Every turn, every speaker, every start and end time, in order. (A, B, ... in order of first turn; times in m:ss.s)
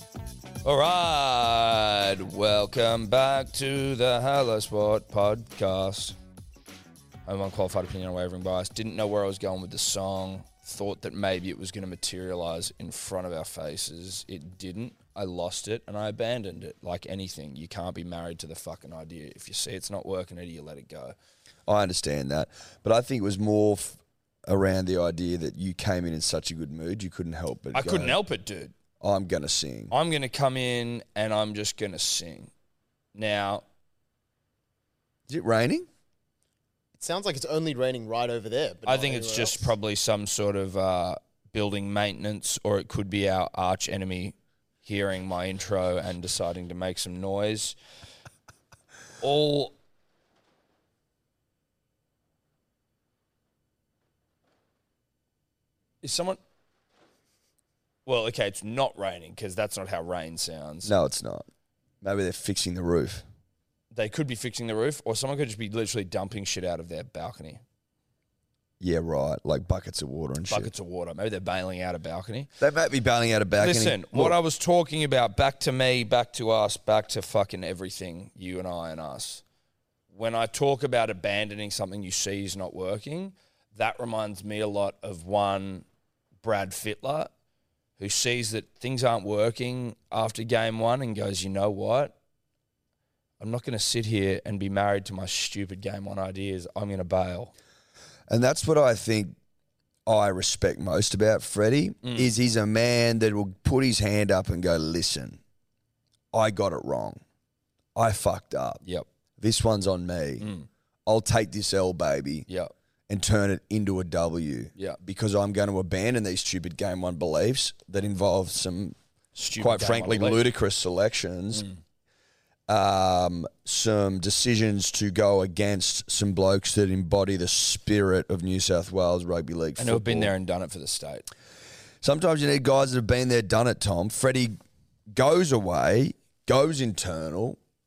0:00.6-0:06.2 A
0:07.3-0:21.2 A
0:21.7-0:28.2 B
0:27.7-0:28.7 A
0:29.0-0:29.9 B
0:29.9-0:32.5 A
0:33.2-0:33.6 A
0:35.3-0:35.9 B
0:37.0-0:39.7 C
0:38.9-0:47.8 A
0:49.2-0:49.8 A
0:56.0-0:56.4 A
0:58.1-1:00.9 A
1:00.8-1:01.5 B
1:02.0-1:03.2 B
1:03.9-1:07.6 A
1:08.8-1:10.7 B
1:10.5-1:12.5 A
1:12.6-1:14.4 B
1:13.6-1:19.4 A
1:20.1-1:25.8 A
1:26.4-1:27.3 A
1:28.0-1:32.1 A
1:33.4-1:37.5 A
1:38.3-1:39.4 B
1:40.1-1:45.4 B
1:42.0-1:42.3 A
1:46.3-1:47.2 B
1:48.0-1:48.8 B
1:49.4-1:50.5 B
1:50.4-1:50.7 A
1:51.1-1:52.5 B
1:53.1-1:59.0 B
1:59.4-2:00.5 A
1:59.5-2:01.6 B
2:02.7-2:10.3 B
2:09.8-2:11.3 A
2:12.0-2:14.6 B
2:15.1-2:17.6 B